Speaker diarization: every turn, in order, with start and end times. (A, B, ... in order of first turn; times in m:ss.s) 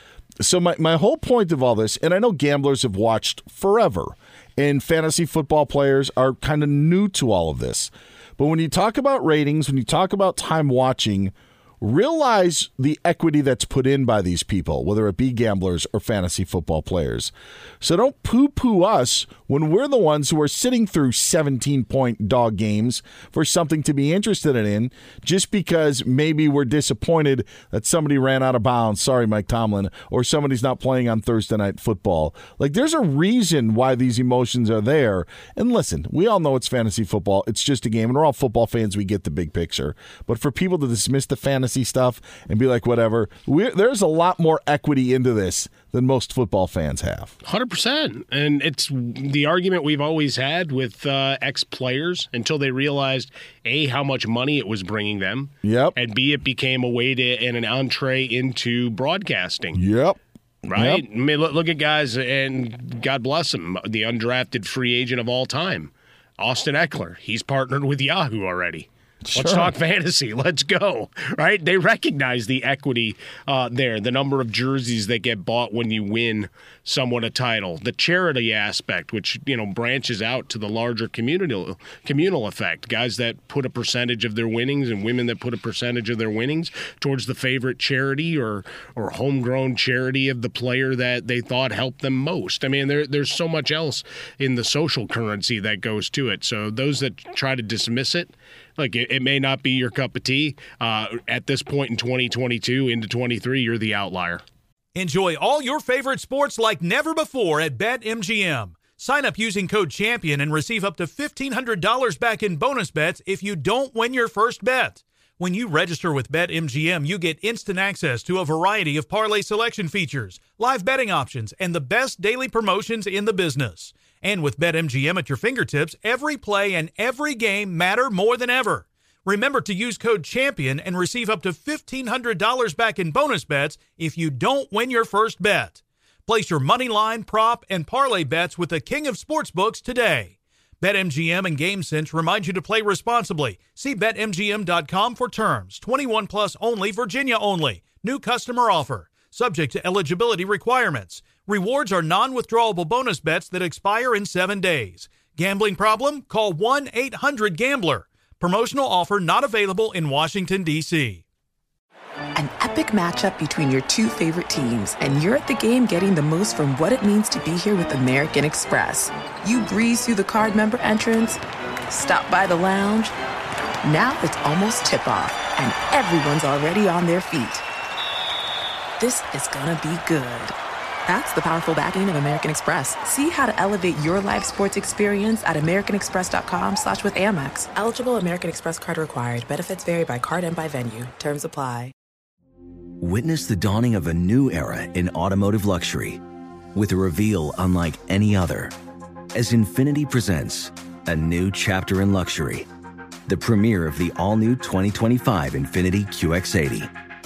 0:00.4-0:47.4 A
0:47.4-0:59.8 B
0:55.6-0:56.0 A
0:59.7-1:00.2 A
1:00.7-1:44.4 B
1:00.7-1:01.0 A
1:09.3-1:09.7 A
1:45.0-2:41.2 C
2:42.4-2:53.1 D
2:53.8-2:57.6 D
2:59.0-3:00.6 D
3:01.1-3:11.9 D
3:13.0-3:16.2 E
3:16.8-3:18.8 E
3:19.4-3:22.7 E
3:23.3-3:26.9 E